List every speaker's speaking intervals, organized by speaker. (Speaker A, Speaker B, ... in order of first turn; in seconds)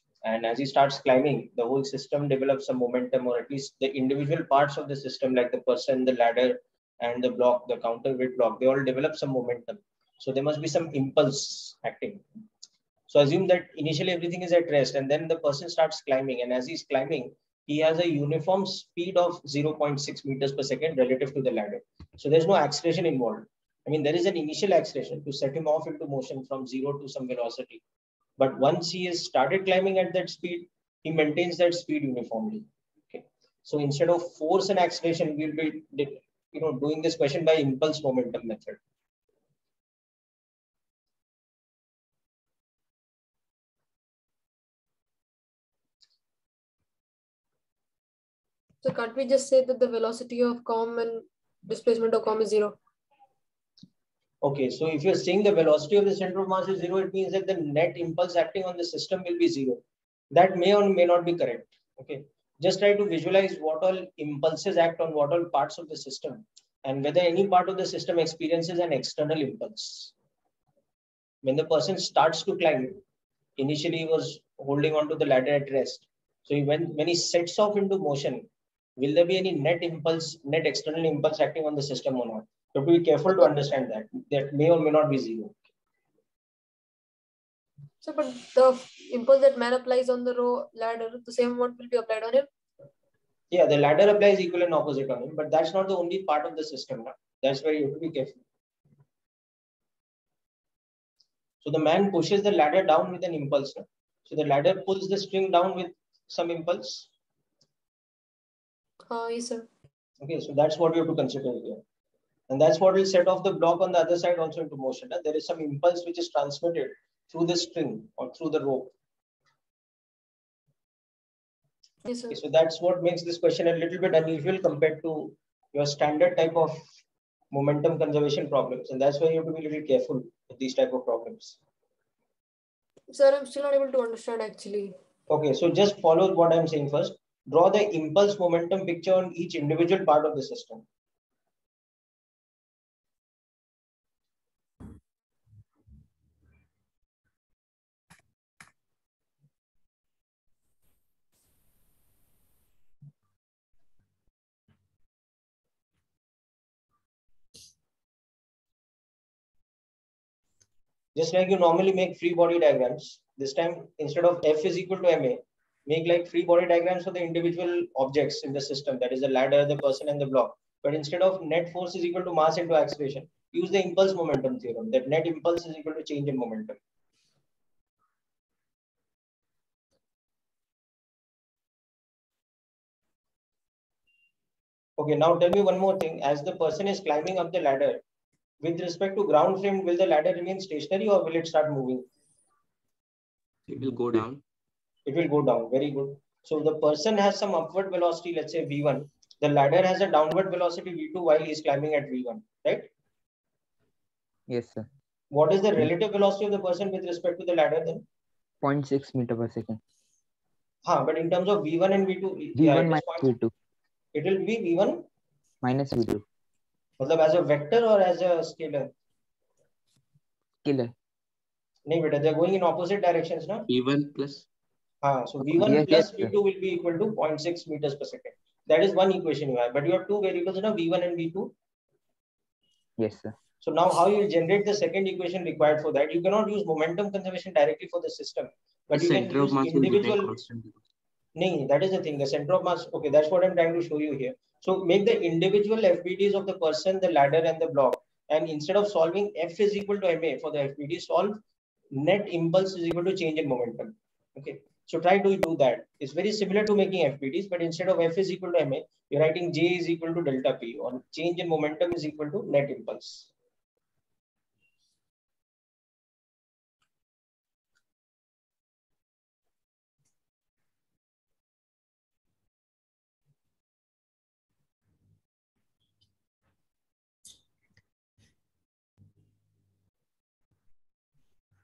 Speaker A: 0.2-12.2, 13.1-27.8, 28.4-38.8, 54.4-70.1, 71.4-73.0, 73.6-78.5, 79.0-85.6, 93.5-98.4, 101.6-107.1, 110.2-111.8, 112.5-118.9, 122.3-126.8, 127.5-131.6, 135.3-140.8, 161.2-176.8, 185.0-188.0, 188.6-192.1, 195.1-202.9, 205.3-208.1, 210.8-213.3, 214.1-215.1, 217.0-218.9, 221.9-223.7, 225.0-231.5, 233.6-240.4, 241.3-251.4, 251.9-263.3
Speaker B: 48.8-52.8, 88.0-92.5, 109.1-109.7, 122.1-122.4, 133.1-135.0
Speaker C: 193.7-194.4, 223.7-224.5, 238.9-240.8
Speaker D: 204.5-204.9, 208.6-209.8, 212.6-213.5, 215.6-216.2, 220.6-220.9, 225.5-226.3, 233.0-233.3